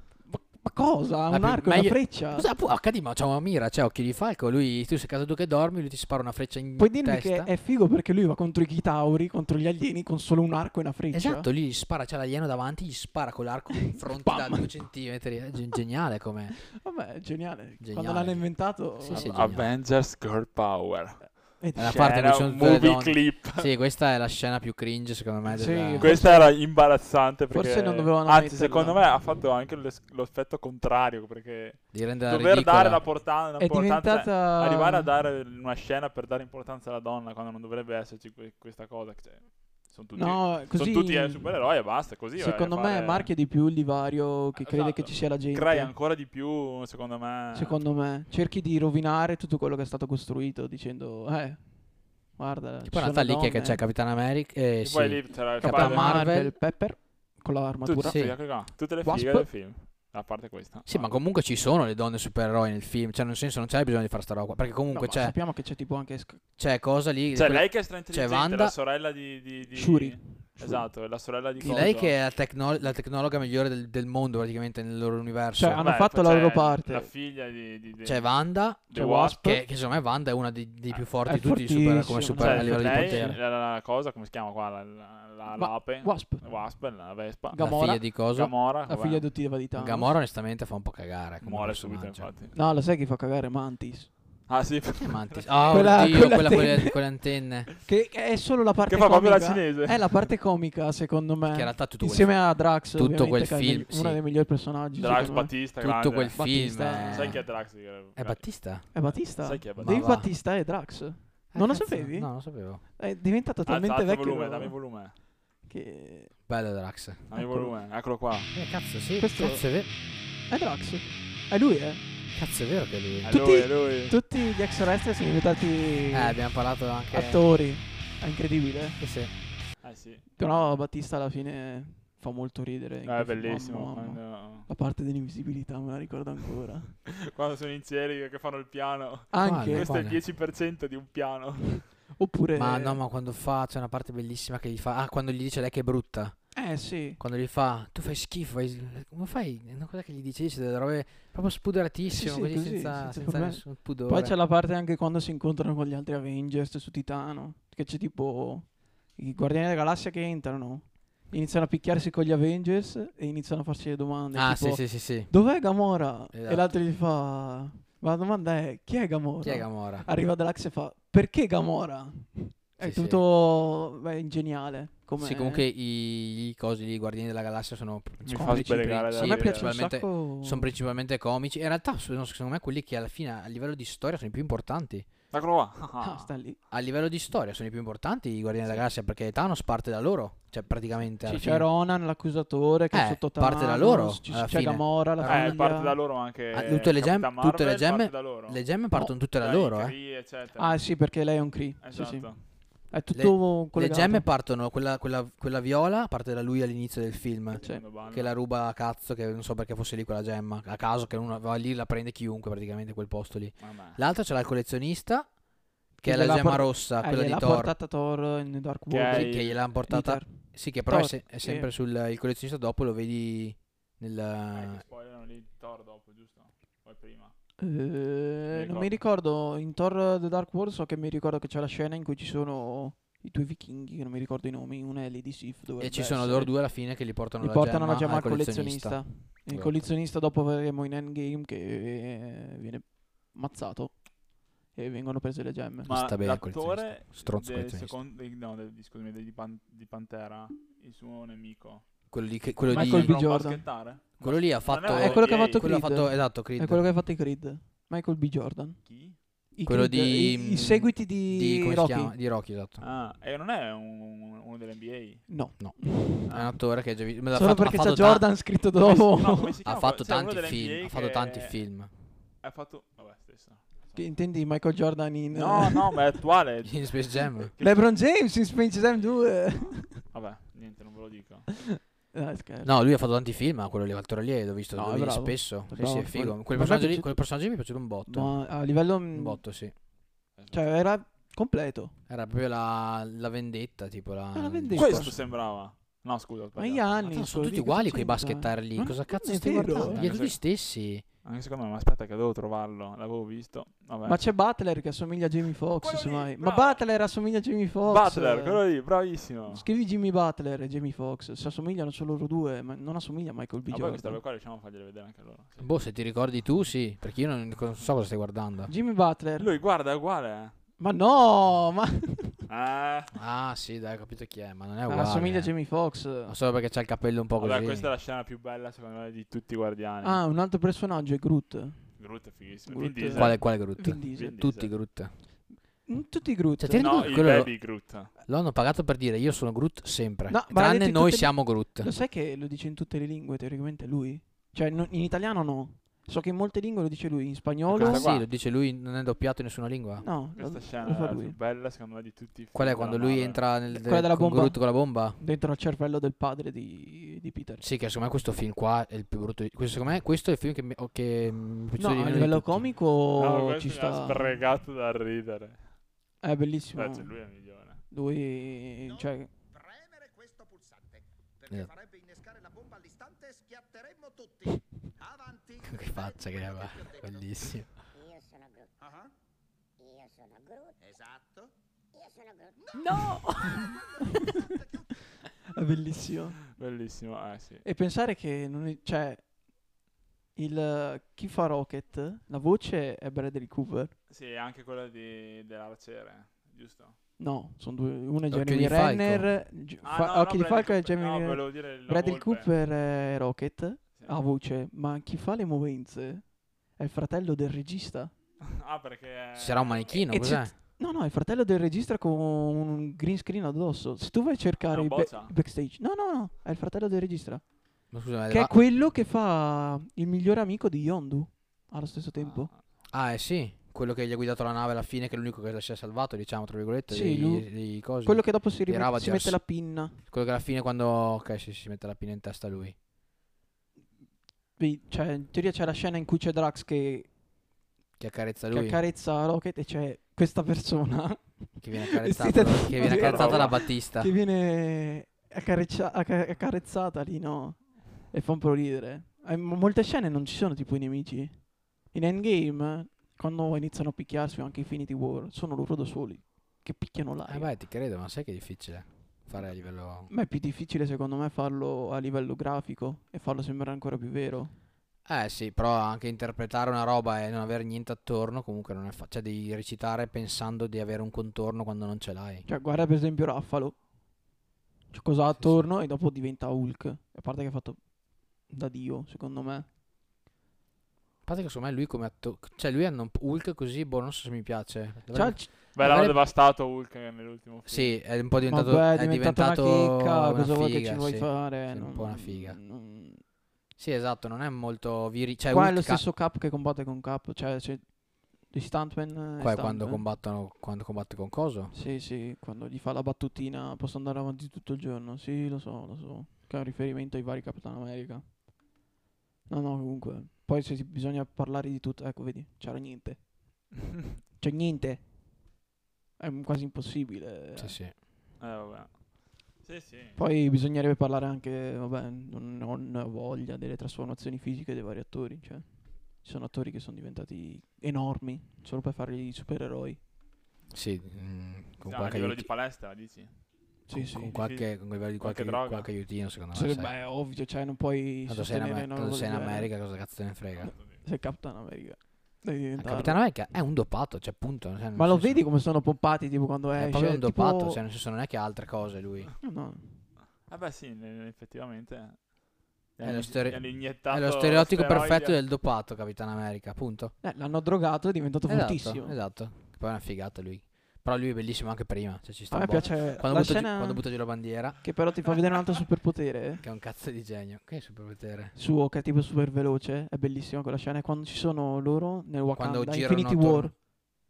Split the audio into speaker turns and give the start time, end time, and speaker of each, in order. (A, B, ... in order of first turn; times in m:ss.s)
0:00.2-0:02.5 A
0:01.3-0:07.5 B
0:06.8-0:11.5 A
0:11.1-0:16.6 B
0:13.7-0:14.8 A
0:16.6-0:19.4 A
0:17.8-0:19.7 B
0:19.1-0:23.7 C
0:21.6-0:22.0 A
0:21.7-0:26.2 B
0:25.5-0:26.7 A
0:26.0-0:43.3 C
0:27.5-0:29.0 A
0:31.9-0:33.0 B
0:33.6-0:35.1 A
0:40.2-0:41.5 A
0:42.4-0:45.9 A
0:44.5-0:47.8 C
0:47.5-0:53.8 A
0:52.8-0:56.5 B
0:54.8-0:56.2 C
0:55.6-0:59.5 A
0:57.8-1:01.1 C
0:58.0-0:58.4 B
1:00.8-1:05.4 B
1:04.9-1:06.4 A
1:06.6-1:08.7 B
1:07.3-1:12.2 C
1:09.7-1:10.8 A
1:11.6-1:15.8 B
1:15.5-1:17.1 A
1:15.8-1:18.3 C
1:18.0-1:23.4 B
1:18.9-1:19.4 C
1:18.9-1:19.6 A
1:21.2-1:23.4 A
1:22.4-1:27.7 C
1:25.5-1:26.5 A
1:27.5-1:28.1 A
1:27.6-1:28.5 B
1:28.3-1:29.3 C
1:28.8-1:30.1 A
1:29.7-1:32.3 B
1:31.4-1:32.5 C
1:32.5-1:34.2 A
1:34.5-1:36.2 C
1:35.0-1:37.7 B
1:35.7-1:37.1 A
1:37.8-1:45.5 A
1:38.9-1:40.2 C
1:41.5-1:44.2 B
1:45.0-1:46.4 C
1:45.8-1:49.2 B
1:46.3-1:47.4 A
1:47.1-1:50.0 C
1:48.9-1:54.8 A
1:49.8-1:50.3 B
1:51.5-1:52.8 B
1:53.6-1:55.2 C
1:55.6-1:56.4 A
1:56.5-1:57.3 B
1:57.3-1:58.5 C
1:57.3-1:57.7 A
1:58.5-1:59.9 B
1:59.2-1:59.6 A
2:00.5-2:02.0 A
2:02.3-2:03.3 B
2:03.2-2:04.2 C
2:03.2-2:06.4 A
2:06.1-2:07.5 B
2:07.1-2:09.0 A
2:09.0-2:09.3 B
2:09.8-2:10.2 C
2:10.4-2:17.0 A
2:13.0-2:14.7 C
2:17.1-2:21.9 C
2:19.3-2:19.9 A
2:19.4-2:20.2 B
2:22.2-2:23.0 A
2:22.5-2:26.5 B
2:26.5-2:27.2 A
2:27.2-2:34.3 B
2:32.0-2:55.6 A
2:44.3-2:45.3 B
2:46.3-2:46.7 B
2:49.4-2:50.0 B
2:52.8-2:53.2 B
2:55.2-3:05.1 B
2:58.2-2:59.7 C
2:58.3-3:00.7 A
3:05.3-3:06.3 C
3:06.0-3:06.6 A
3:06.7-3:11.7 B
3:11.2-3:16.0 A
3:12.9-3:15.5 B
3:15.2-3:18.6 C
3:16.5-3:19.9 B
3:19.3-3:20.8 C
3:20.6-3:24.3 A
3:21.8-3:22.4 C
3:23.1-3:35.3 B
3:27.6-3:28.3 C
3:33.6-3:34.0 C
3:36.0-3:41.7 A
3:36.0-3:37.7 B
3:38.9-3:39.6 C
3:39.1-3:44.8 B
3:44.5-3:47.3 C
3:47.6-3:56.6 A
3:48.5-3:49.0 C
3:55.8-3:59.8 B
3:57.4-4:04.1 A
4:04.7-4:05.9 A
4:05.8-4:11.8 C
4:05.9-4:07.9 B
4:12.1-4:13.1 B
4:12.7-4:13.6 A
4:12.7-4:15.7 C
4:14.2-4:16.8 B
4:14.8-4:18.8 A
4:18.8-4:19.2 C
4:19.5-4:22.1 A
4:19.6-4:22.8 B
4:22.8-4:25.3 C
4:25.3-4:26.3 A
4:25.6-4:28.3 B
4:26.2-4:26.5 C
4:27.3-4:29.6 A
4:28.8-4:31.6 C
4:29.6-4:31.9 B
4:32.4-4:34.1 C
4:33.9-4:36.0 A
4:35.3-4:38.0 C
4:36.6-4:37.5 B
4:37.6-4:40.0 A
4:39.6-4:41.5 C
4:41.5-4:42.7 A
4:42.6-4:48.4 B
4:44.7-4:47.2 A
4:48.1-4:49.4 A
4:49.1-4:49.7 B
4:50.4-4:50.6 C
4:50.5-4:51.9 A
4:52.1-4:55.1 B
4:54.3-4:55.2 A
4:54.7-4:56.9 C
4:56.6-5:00.1 A
4:57.0-5:01.0 B
4:59.7-5:00.4 C
5:01.2-5:04.2 C
5:04.0-5:08.6 A
5:05.8-5:06.8 C
5:07.8-5:09.6 C
5:09.5-5:14.2 A
5:13.7-5:15.7 C
5:15.6-5:18.7 B
5:18.7-5:19.6 A
5:19.4-5:20.5 C
5:20.8-5:22.4 A
5:22.5-5:23.1 C
5:23.1-5:25.5 B
5:24.9-5:26.3 A
5:26.2-5:27.9 B
5:27.4-5:30.2 C
5:30.0-5:32.0 A
5:32.0-5:34.7 C
5:32.7-5:34.4 A
5:33.1-5:35.1 B
5:35.8-5:37.2 A
5:36.6-5:41.9 B
5:36.7-5:38.1 C
5:40.3-5:48.1 A
5:47.7-5:50.0 B
5:47.7-5:48.2 C
5:50.0-5:51.3 A
5:50.4-5:53.4 C
5:52.5-5:55.2 B
5:53.7-5:57.7 A
5:57.6-6:02.7 B
6:01.8-6:04.4 A
6:03.2-6:05.6 C
6:06.2-6:07.1 A
6:06.7-6:07.8 C
6:07.9-6:09.3 A
6:08.8-6:17.6 D
6:15.6-6:17.7 B
6:17.9-6:18.7 E
6:18.8-6:19.1 D
6:19.8-6:20.8 E
6:20.8-6:21.5 D
6:21.9-6:22.6 E
6:22.6-6:25.1 D
6:22.7-6:24.6 A
6:25.4-6:26.4 A
6:26.5-6:27.6 C
6:27.6-6:29.2 A
6:30.4-6:34.0 A
6:34.1-6:37.0 C
6:37.2-6:48.1 A
6:38.3-6:39.3 B
6:39.8-6:42.5 C
6:44.0-6:44.2 C
6:48.4-6:50.0 C
6:49.4-6:50.5 B
6:50.1-6:57.4 A
6:54.7-6:55.3 C
6:57.9-6:58.6 B
6:58.3-7:02.5 A
7:02.2-7:02.6 C
7:02.9-7:09.4 B
7:06.9-7:10.0 A
7:10.0-7:12.7 B
7:14.6-7:17.1 A
7:18.0-7:18.8 B
7:18.5-7:37.5 A
7:21.6-7:24.1 B
7:22.8-7:23.6 C
7:37.3-7:40.1 B
7:40.1-7:44.5 A
7:45.0-7:52.4 B
7:52.4-7:53.7 A
7:54.9-7:57.8 A
7:58.5-7:59.7 A
8:01.2-8:06.2 B
8:05.1-8:05.6 A
8:05.7-8:08.0 C
8:07.7-8:12.6 B
8:08.4-8:13.2 A
8:13.8-8:16.0 B
8:15.5-8:20.0 A
8:19.4-8:21.7 B
8:21.7-8:28.3 A
8:29.5-8:33.2 A
8:34.4-8:35.0 A
8:36.2-8:37.8 A
8:37.6-8:37.9 B
8:38.4-8:40.2 C
8:40.2-8:50.0 A
8:50.7-8:52.5 B
8:51.8-8:53.4 C
8:53.9-8:54.4 A
8:53.9-8:56.9 B
8:54.3-8:55.9 C
8:56.5-8:59.7 A
8:58.3-9:00.7 B
9:00.7-9:03.2 A
9:02.8-9:05.4 B
9:04.9-9:07.8 A
9:06.7-9:09.3 B
9:09.4-9:10.0 A
9:10.5-9:12.3 C
9:12.9-9:15.4 C
9:13.0-9:17.1 B
9:17.2-9:19.2 A
9:18.5-9:24.8 B
9:22.5-9:24.0 A
9:24.8-9:26.6 A
9:26.6-9:28.5 B
9:28.5-9:33.8 A
9:32.6-9:33.7 B